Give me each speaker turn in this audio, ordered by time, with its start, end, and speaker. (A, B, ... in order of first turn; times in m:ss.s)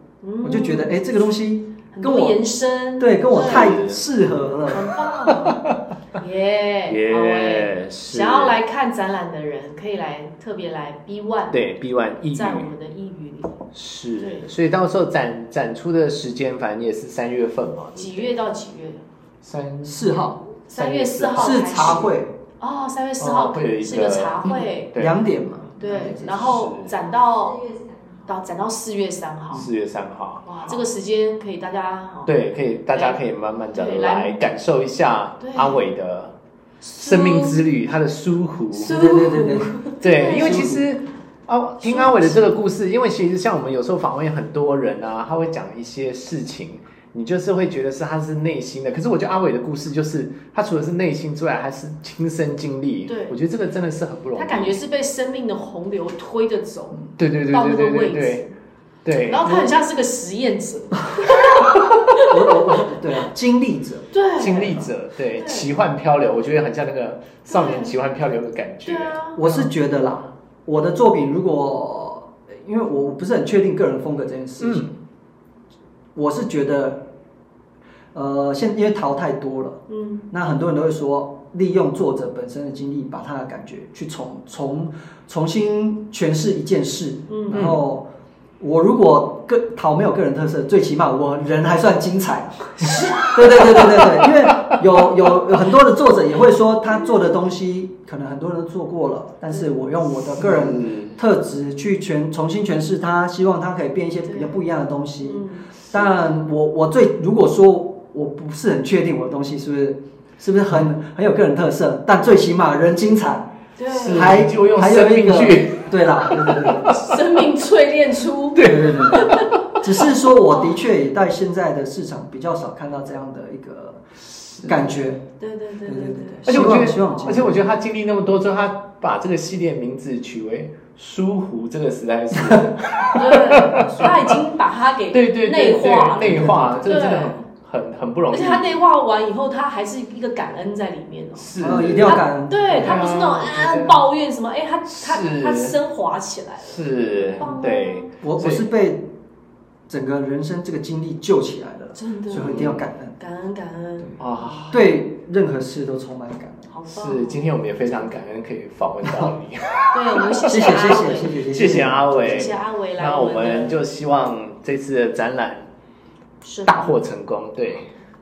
0:00.2-0:00.9 A
0:00.4-0:02.4 B
0:01.9-0:03.8 A
0:03.0-0:04.9 B
0:03.3-0:04.0 C
0:04.7-0:05.6 A
0:05.3-0:05.8 C
0:06.2-0:11.6 A
0:06.9-0:08.6 C
0:11.5-0:12.7 C
0:12.3-0:13.6 A
0:13.7-0:18.4 C
0:14.2-0:14.5 A
0:18.0-0:19.0 A
0:19.4-0:22.1 C
0:19.8-0:20.4 B
0:20.7-0:24.9 A
0:21.4-0:22.3 B
0:23.2-0:25.2 C
0:24.9-0:26.6 B
0:25.8-0:29.7 A
0:26.3-0:27.0 C
0:29.5-0:30.8 C
0:30.5-0:32.3 A
0:32.3-0:36.3 C
0:32.9-0:33.2 A
0:33.7-0:34.4 A
0:35.4-0:35.8 A
0:36.8-0:37.6 A
0:37.0-0:39.1 C
0:38.8-0:40.8 A
0:38.8-0:40.8 B
0:40.0-0:54.8 C
0:41.8-0:42.5 A
0:53.1-0:53.4 A
0:54.4-0:58.5 A
0:57.2-0:58.4 C
0:59.0-0:59.5 C
0:59.3-1:03.0 A
0:59.4-0:59.7 B
1:02.1-1:04.9 B
1:04.1-1:05.7 A
1:04.4-1:09.7 C
1:07.5-1:07.9 A
1:08.8-1:09.4 A
1:09.4-1:14.9 B
1:14.6-1:14.9 C
1:16.2-1:17.1 B
1:18.1-1:53.5 B
1:19.9-1:20.3 A
1:27.3-1:27.7 A
1:27.5-1:27.8 C
1:32.8-1:34.7 A
1:40.4-1:41.2 C
1:44.2-1:44.6 A
1:45.2-1:45.7 A
1:53.8-1:54.4 A
1:53.9-1:56.8 C
1:54.1-1:57.0 B
1:56.8-1:59.8 A
1:58.6-1:59.5 C
1:58.6-2:04.0 B
2:00.5-2:00.8 A
2:04.4-2:04.8 C
2:04.6-2:05.2 B
2:05.4-2:07.3 A
2:05.8-2:07.6 B
2:06.5-2:14.4 C
2:12.4-2:12.6 B
2:13.1-2:17.4 A
2:13.8-2:14.3 B
2:15.1-2:18.8 C
2:16.2-2:17.0 B
2:18.3-2:28.1 A
2:21.4-2:22.2 C
2:21.6-2:23.0 B
2:22.8-2:24.1 C
2:24.9-2:25.8 C
2:26.6-2:28.7 C
2:28.2-2:29.1 B
2:29.9-2:33.2 B
2:31.9-2:34.8 A
2:32.3-2:32.9 C
2:34.2-2:34.8 C
2:34.7-2:36.7 B
2:36.7-2:38.1 A
2:36.9-2:45.7 C
2:39.0-2:39.4 B
2:39.9-2:41.4 A
2:40.5-2:42.6 B
2:42.1-2:43.8 A
2:46.4-2:47.0 A
2:46.6-2:47.9 C